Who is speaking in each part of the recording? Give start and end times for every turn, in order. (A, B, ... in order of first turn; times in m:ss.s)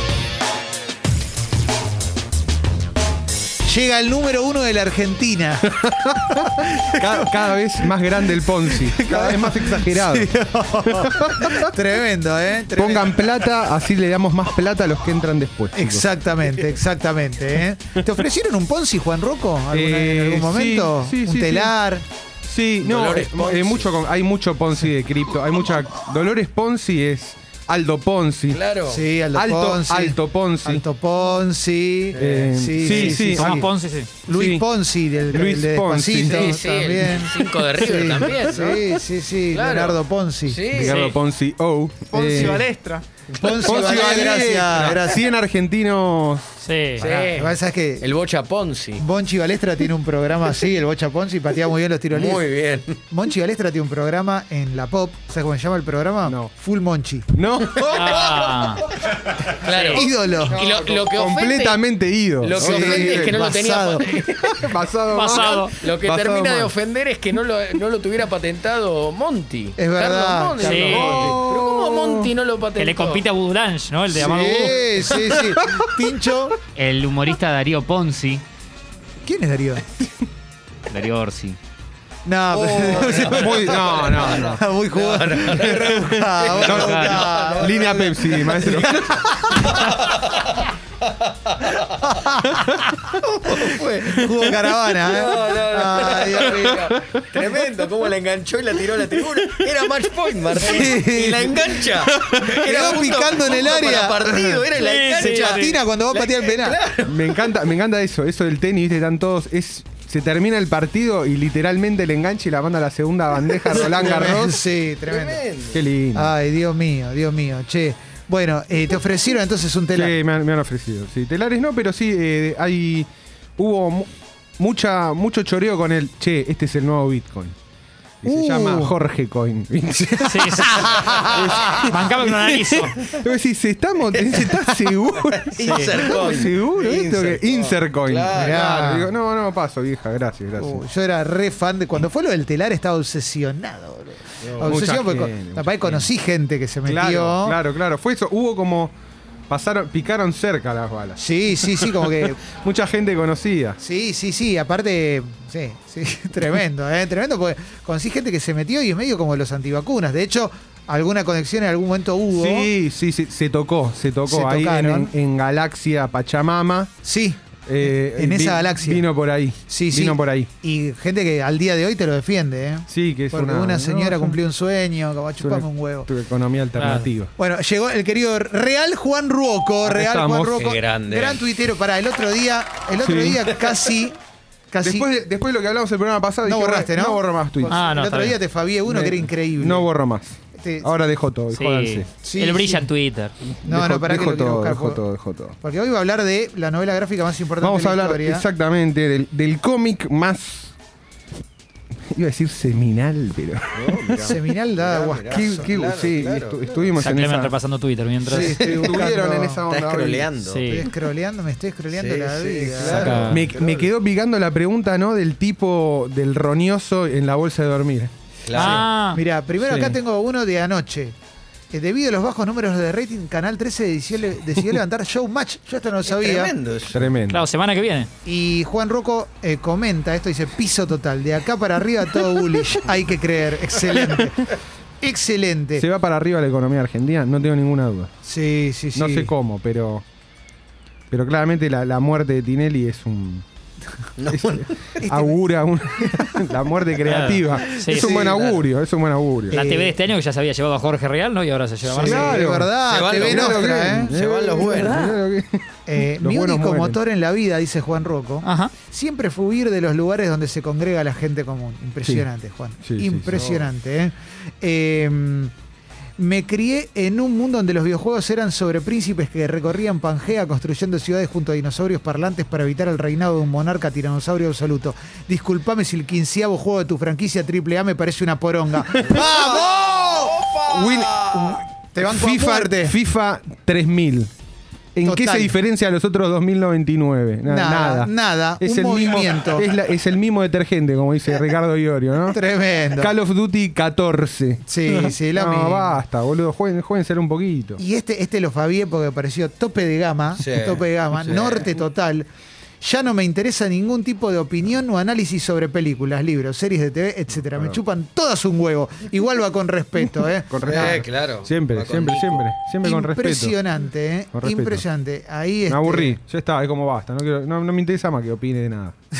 0:03.6-0:05.7 A
0:05.7-0:10.3 B
0:06.4-0:07.2 A
0:08.8-0:13.2 A
0:10.9-0:11.7 B
0:12.7-0:16.1 B
0:15.7-0:22.0 A
0:19.7-0:21.7 B
0:22.4-0:28.6 B
0:22.8-0:23.9 C
0:28.5-0:29.0 C
0:28.9-0:33.7 A
0:29.3-0:30.8 B
0:32.2-0:32.5 C
0:32.2-0:33.6 B
0:32.8-0:34.1 D
0:34.3-0:40.7 A
0:34.3-0:34.7 B
0:35.3-0:36.6 B
0:36.2-0:38.8 C
0:39.5-0:41.1 C
0:40.7-0:42.6 B
0:40.8-0:41.2 D
0:42.1-0:42.7 A
0:43.4-0:44.3 C
0:43.4-0:45.2 A
0:43.6-0:46.6 B
0:46.6-0:47.1 D
0:47.0-0:48.1 A
0:47.0-0:49.0 C
0:49.0-0:52.4 A
0:52.1-0:53.0 C
0:53.1-0:57.3 A
0:56.2-0:56.5 B
0:57.3-0:58.3 B
0:57.8-0:58.8 C
0:57.9-0:58.8 D
0:59.5-1:01.8 C
0:59.7-1:00.0 D
0:59.9-1:00.6 A
1:00.5-1:03.5 B
1:02.4-1:04.6 C
1:02.5-1:04.1 A
1:04.2-1:06.7 B
1:05.1-1:05.8 D
1:05.3-1:13.2 C
1:09.8-1:10.9 A
1:10.6-1:11.4 D
1:10.8-1:12.3 B
1:12.8-1:14.8 D
1:14.1-1:16.6 A
1:15.1-1:15.4 C
1:15.2-1:15.9 B
1:16.8-1:18.4 E
1:19.2-1:19.9 A
1:20.9-1:21.6 E
1:22.2-1:27.9 A
1:22.5-1:32.1 C
1:23.3-1:24.6 B
1:26.6-1:29.3 B
1:29.5-1:30.0 A
1:32.0-1:36.8 A
1:33.2-1:47.5 C
1:39.4-1:39.8 B
1:40.6-1:41.2 B
1:40.6-1:41.9 A
1:42.0-1:43.0 B
1:42.5-1:44.5 A
1:44.8-1:45.8 D
1:45.2-1:46.8 A
1:47.0-1:54.6 B
1:53.7-1:55.4 A
1:53.8-1:54.4 C
1:55.1-1:55.8 C
1:55.7-1:56.3 B
1:56.1-2:00.2 A
1:59.9-2:07.6 B
2:08.2-2:20.8 B
2:08.2-2:09.0 A
2:10.2-2:13.0 D
2:10.7-2:11.8 A
2:14.1-2:14.7 C
2:15.2-2:18.6 C
2:15.6-2:16.1 D
2:18.3-2:19.1 A
2:20.6-2:27.6 A
2:24.4-2:24.8 C
2:24.6-2:26.1 B
2:26.8-2:28.9 B
2:29.5-2:33.8 B
2:31.2-2:32.4 A
2:33.8-2:42.7 A
2:42.3-2:47.0 B
2:44.3-2:45.1 A
2:47.0-2:49.1 A
2:47.7-2:50.5 B
2:49.7-2:56.1 A
2:52.9-2:54.4 B
2:55.4-2:57.3 B
2:56.8-2:57.1 D
2:57.4-3:04.2 A
2:59.8-3:00.7 B
3:00.5-3:01.4 C
3:03.0-3:03.4 B
3:04.7-3:05.1 A
3:04.8-3:07.8 B
3:06.4-3:09.9 A
3:07.7-3:08.4 D
3:08.9-3:12.1 B
3:10.5-3:10.9 A
3:11.5-3:13.4 D
3:12.2-3:12.9 A
3:13.5-3:15.6 B
3:13.6-3:15.0 A
3:15.6-3:18.4 A
3:17.6-3:20.7 B
3:22.1-3:24.4 B
3:23.8-3:27.0 C
3:24.3-3:25.7 A
3:25.3-3:27.6 B
3:27.0-3:28.6 D
3:28.2-3:29.6 A
3:28.3-3:30.3 B
3:28.4-3:28.9 C
3:29.7-3:30.8 C
3:30.4-3:30.9 D
3:30.7-3:33.3 A
3:31.9-3:33.9 C
3:32.8-3:33.5 D
3:32.9-3:38.1 B
3:38.5-3:38.9 C
3:38.5-3:39.2 D
3:39.1-3:41.2 A
3:39.6-3:40.0 B
3:41.7-3:46.6 A
3:46.1-3:47.2 C
3:46.9-3:47.4 B
3:47.3-3:48.1 D
3:48.2-3:55.9 A
3:53.9-3:54.2 B
3:55.8-3:58.1 B
3:58.2-3:59.3 A
3:59.0-4:00.0 B
4:01.1-4:03.4 B
4:04.2-4:04.8 C
4:04.3-4:09.6 B
4:05.0-4:05.4 A
4:07.0-4:08.6 D
4:07.9-4:08.5 C
4:09.5-4:12.2 D
4:09.5-4:10.0 A
4:11.8-4:14.1 A
4:12.0-4:17.0 B
4:12.0-4:15.2 C
4:15.9-4:25.5 A
4:18.4-4:18.7 D
4:22.8-4:23.6 B
4:26.2-4:43.0 A
4:39.2-4:41.4 C
4:40.6-4:41.3 B
4:42.0-4:44.3 B
4:45.0-4:57.8 B
4:45.0-4:45.6 A
4:47.4-4:49.7 A
4:52.3-4:53.2 A
4:54.7-4:56.0 A
4:57.8-5:02.3 A
5:00.4-5:01.7 C
5:02.8-5:11.0 A
5:10.5-5:13.6 B
5:10.6-5:12.5 C
5:12.8-5:16.2 A
5:14.3-5:14.8 B
5:15.7-5:19.0 B